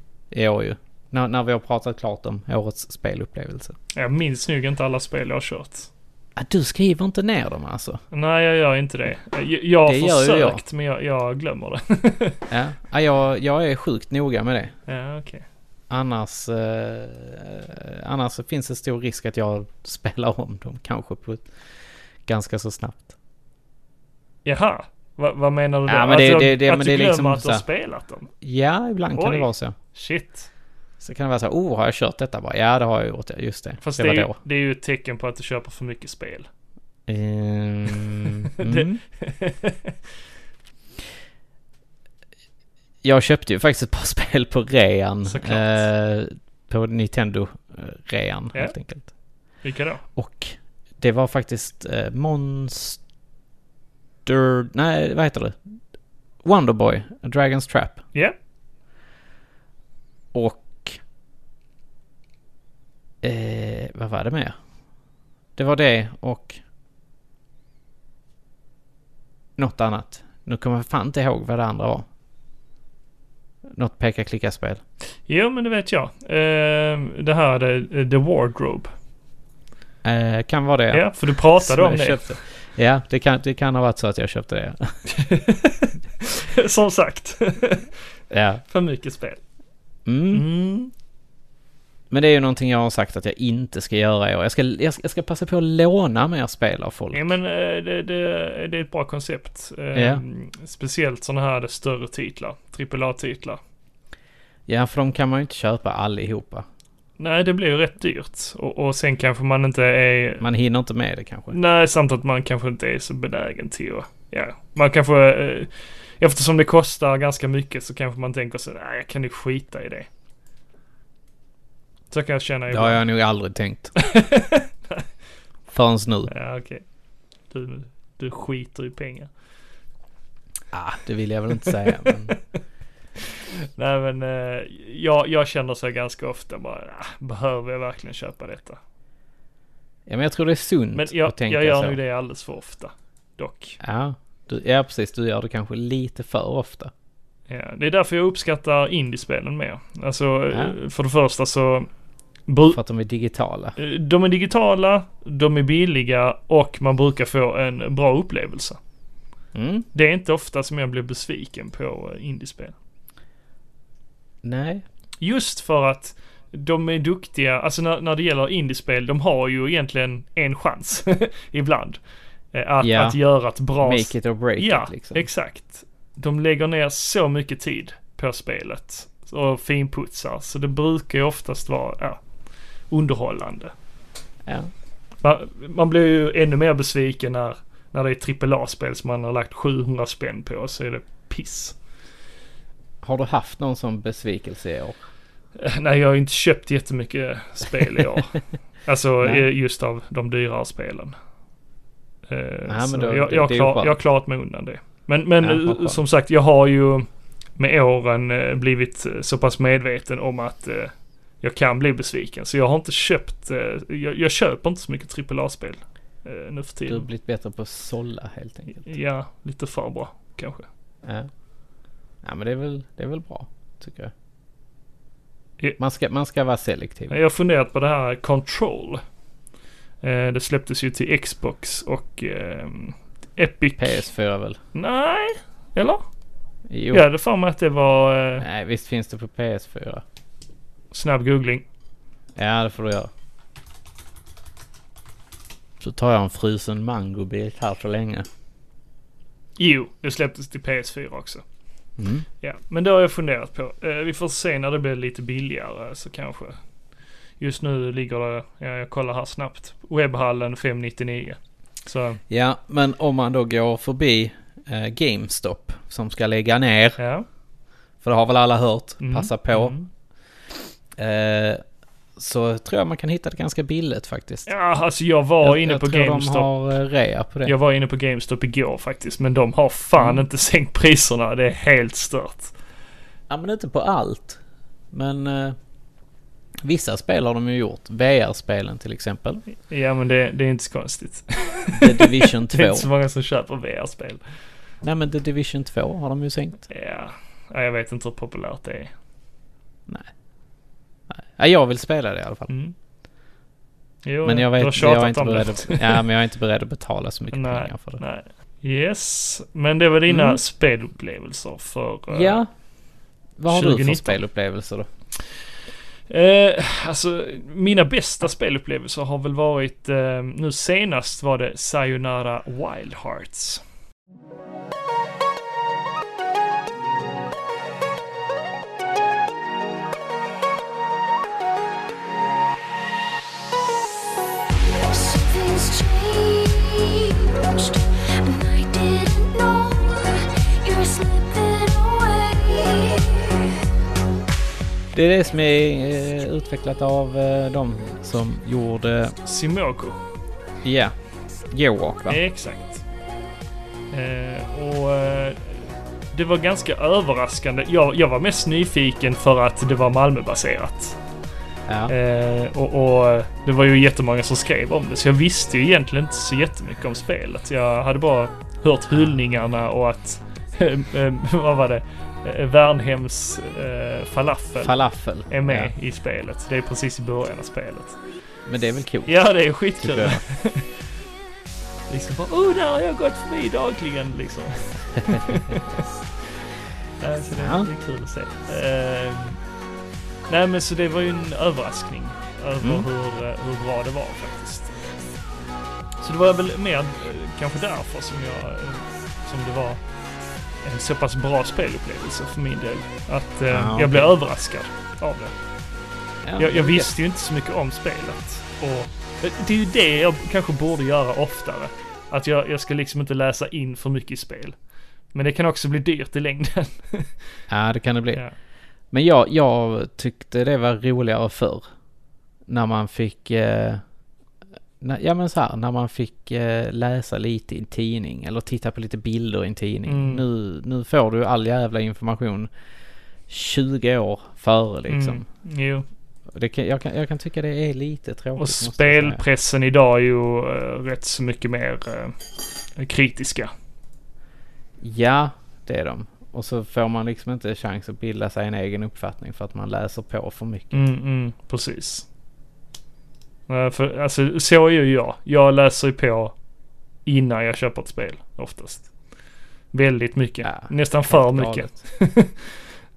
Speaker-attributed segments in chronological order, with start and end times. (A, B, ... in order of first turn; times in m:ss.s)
0:00.3-0:03.8 A
0:03.9-0:05.9 B
0:06.4-0:08.0 A
0:08.1-0:12.4 B
0:09.8-0:10.6 A
0:12.5-0:14.7 A
0:14.9-0:15.4 B
0:15.9-0:21.4 A
0:22.2-0:23.2 A
0:24.4-0:28.3 B
0:25.9-0:27.6 A
0:28.4-0:29.8 A
0:29.2-0:30.5 B
0:31.0-0:34.4 A
0:33.8-0:36.5 B
0:37.1-0:39.0 A
0:38.6-0:39.9 B
0:43.0-0:49.1 A
0:45.2-0:45.8 B
0:49.6-0:50.0 B
0:50.2-0:53.0 A
0:54.2-0:55.6 A
0:56.4-0:58.0 A
1:00.3-1:01.0 A
1:03.2-1:04.6 A
1:05.6-1:06.6 A
1:09.6-1:12.1 A
1:13.7-1:14.8 A
1:15.3-1:18.9 B
1:20.0-1:25.0 A
1:20.9-1:22.4 B
1:25.1-1:27.9 B
1:28.3-1:28.6 A
1:28.7-1:29.4 B
1:30.0-1:30.4 A
1:30.3-1:30.9 B
1:32.1-1:37.3 A
1:37.1-1:43.6 B
1:39.9-1:40.2 A
1:44.7-1:46.6 A
1:47.2-1:50.4 B
1:50.4-1:51.6 A
1:51.5-2:00.1 B
2:02.1-2:03.0 B
2:02.7-2:04.0 A
2:04.0-2:05.1 B
2:05.7-2:06.3 A
2:06.3-2:06.8 B
2:07.5-2:09.3 B
2:10.7-2:12.4 A
2:12.1-2:12.3 B
2:13.3-2:18.8 B
2:20.0-2:22.0 A
2:20.9-2:23.8 B
2:23.8-2:26.9 A
2:27.5-2:31.9 B
2:32.5-2:32.8 B
2:32.7-2:33.8 A
2:33.8-2:38.8 B
2:39.5-2:39.8 A
2:39.9-2:42.8 B
2:44.4-2:44.8 A
2:45.2-2:52.0 B
2:52.5-3:02.2 B
2:52.8-2:53.2 A
2:53.8-2:55.3 A
3:02.9-3:03.7 B
3:05.2-3:11.8 B
3:13.0-3:15.0 A
3:15.6-3:21.2 B
3:22.3-3:37.1 B
3:22.7-3:24.0 A
3:25.4-3:26.0 A
3:36.9-3:38.9 A
3:38.7-3:40.7 B
3:41.0-3:41.3 A
3:42.2-3:44.1 A
3:45.8-3:47.2 A
3:47.1-3:49.0 B
3:50.0-3:54.0 B
3:53.8-3:54.6 A
3:54.7-3:56.0 B
3:56.7-3:57.0 A
3:56.9-3:58.4 B
3:58.4-4:00.0 A
4:00.9-4:01.6 B
4:02.4-4:03.1 A
4:05.8-4:08.3 A
4:09.6-4:11.4 B
4:12.0-4:12.2 A
4:12.4-4:16.6 B
4:17.4-4:22.2 B
4:22.3-4:27.0 A
4:27.0-4:27.2 B
4:28.0-4:29.7 A
4:29.0-4:29.9 B
4:31.0-4:31.6 A
4:32.2-4:34.5 A
4:34.5-4:36.5 B
4:35.4-4:37.5 A
4:37.4-4:42.5 B
4:40.0-4:40.2 A
4:43.3-4:44.4 A
4:44.9-4:45.6 A
4:46.6-4:49.4 A
4:49.6-4:54.2 B
4:51.7-4:52.9 A
4:54.8-4:56.6 A
4:56.7-4:58.9 B
5:01.1-5:02.5 A
5:02.5-5:02.7 B
5:04.0-5:06.0 B
5:04.2-5:08.0 A
5:07.3-5:12.4 B
5:10.1-5:10.4 A
5:12.1-5:12.5 A
5:13.4-5:14.9 A
5:13.5-5:14.2 B
5:16.1-5:23.6 B
5:34.8-5:43.5 C
5:44.9-5:49.2 A
5:49.2-5:50.0 B
5:50.6-5:50.9 A
5:51.5-5:52.2 A
5:52.1-5:52.8 B
5:53.9-6:01.0 B
6:01.7-6:01.9 A
6:01.9-6:14.8 B
6:14.6-6:15.7 A
6:15.3-6:18.0 B
6:18.4-6:19.2 A
6:19.1-6:20.7 B
6:19.8-6:20.2 A
6:21.9-6:25.8 B
6:27.0-6:29.4 B
6:27.3-6:27.7 A
6:30.3-6:34.8 B
6:32.6-6:32.8 A
6:36.0-6:39.8 B
6:40.6-6:45.3 B
6:43.5-6:44.1 A
6:46.2-6:46.9 A
6:46.4-6:54.6 B
6:55.1-6:57.1 B
6:57.5-6:58.2 A
6:58.9-7:01.7 A
7:02.5-7:03.8 A
7:04.8-7:12.5 A
7:09.8-7:10.2 B
7:13.3-7:15.2 A
7:14.9-7:15.8 B
7:16.3-7:19.2 A
7:18.4-7:22.2 B
7:22.8-7:23.5 B
7:24.8-7:30.8 A
7:30.7-7:32.1 B
7:33.5-7:36.3 B
7:37.0-7:38.9 B
7:39.7-7:42.5 B
7:40.4-7:41.7 A